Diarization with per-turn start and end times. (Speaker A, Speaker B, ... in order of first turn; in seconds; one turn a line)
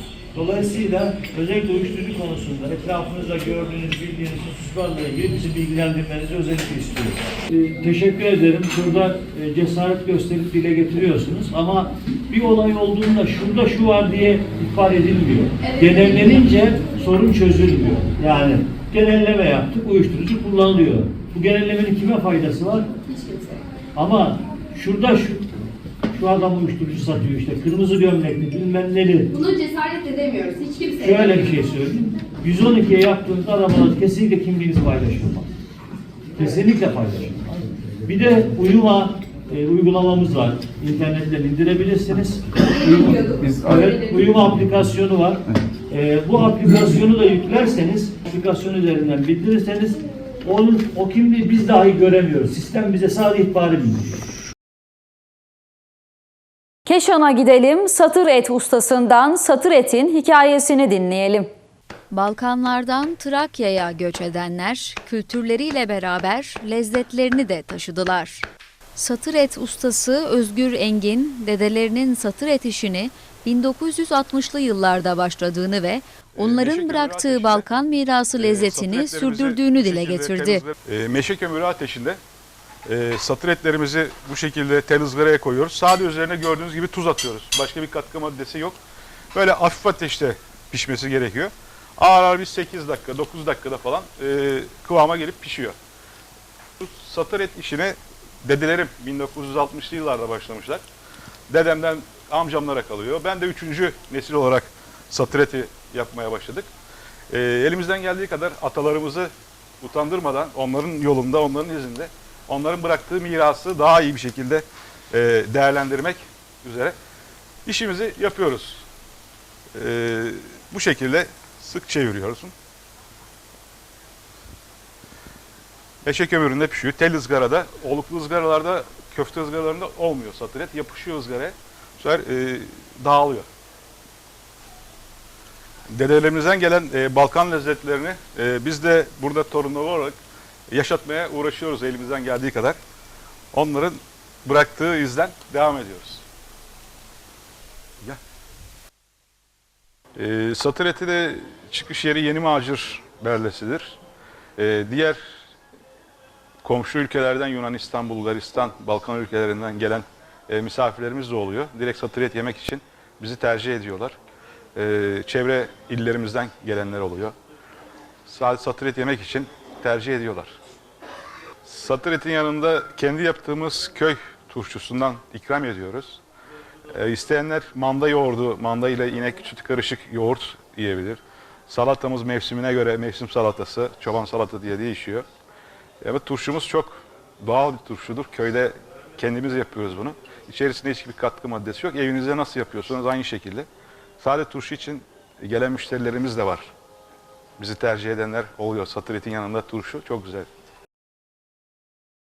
Speaker A: 0.3-22.9
Speaker B: 15.8-16.2
Speaker B: 23.3-23.6
Speaker A: 23.9-25.5
Speaker A: 26.1-29.3
Speaker B: 29.3-31.6
Speaker A: 30.9-35.5
Speaker A: 36.4-54.2
Speaker B: 43.0-44.2
Speaker C: 56.9-61.5
Speaker D: 62.1-80.7
Speaker E: 76.3-77.7
Speaker E: 78.4-82.2
Speaker E: 82.9-88.8
Speaker E: 89.3-95.8
Speaker E: 96.8-100.8
Speaker E: 101.5-106.7
Speaker E: 107.3-109.3
Speaker E: 109.8-117.0
Speaker E: 117.7-118.8
Speaker E: 119.8-122.5
Speaker E: 126.0-133.5
Speaker E: 135.9-140.1
Speaker E: 140.7-142.8
Speaker E: 143.5-146.2
Speaker E: 150.2-154.0
Speaker E: 154.6-155.2
Speaker E: 156.6-164.1
Speaker E: 164.8-167.3
Speaker E: 168.2-170.5
Speaker E: 171.6-176.2
Speaker E: 176.9-185.2
Speaker E: 186.0-193.7
Speaker E: 194.2-196.7
Speaker E: 197.6-200.5